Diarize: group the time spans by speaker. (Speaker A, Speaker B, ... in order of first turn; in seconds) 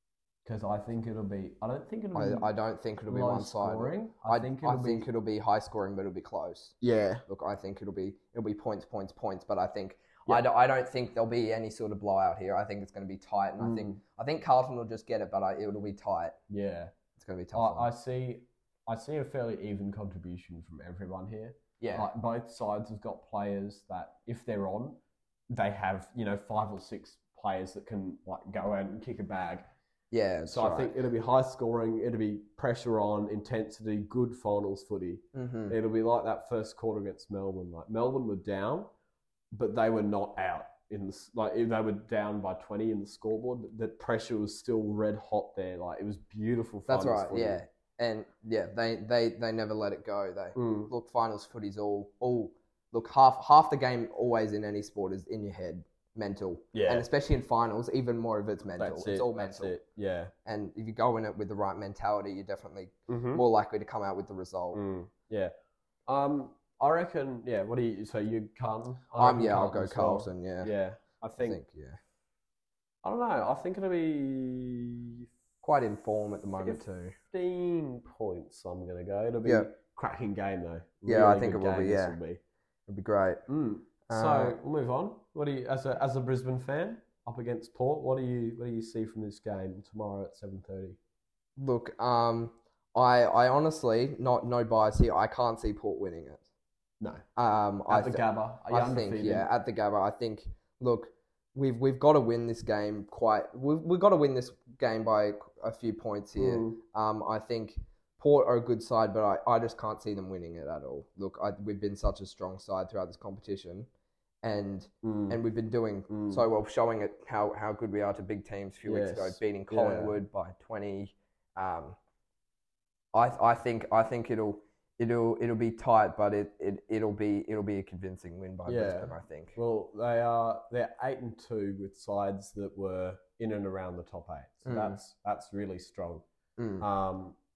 Speaker A: 0.4-2.5, 3.1-5.1, 6.8-7.2, 13.6-14.0, 16.5-16.9, 17.5-29.7, 30.4-38.9, 39.5-47.6, 50.5-50.9, 56.7-57.1, 58.8-60.3, 63.1-63.4, 64.7-65.5, 66.1-71.6, 73.0-75.3, 76.6-82.4, 83.5-91.0, 97.9-99.5, 106.3-106.8, 115.0-115.4, 116.1-116.5, 118.8-120.2, 128.7-136.2, 136.8-137.4
Speaker B: 2.1-6.7, 7.3-16.4, 17.1-17.9, 21.8-22.1, 30.1-30.9, 35.3-35.8, 46.9-59.8, 60.5-64.8, 69.2-70.7, 71.4-72.0, 75.6-77.2, 81.0-82.2, 82.9-83.4, 84.1-84.6, 91.6-96.4, 97.3-113.9, 114.4-122.0, 123.1-129.6, 134.7-135.0, 136.6-136.8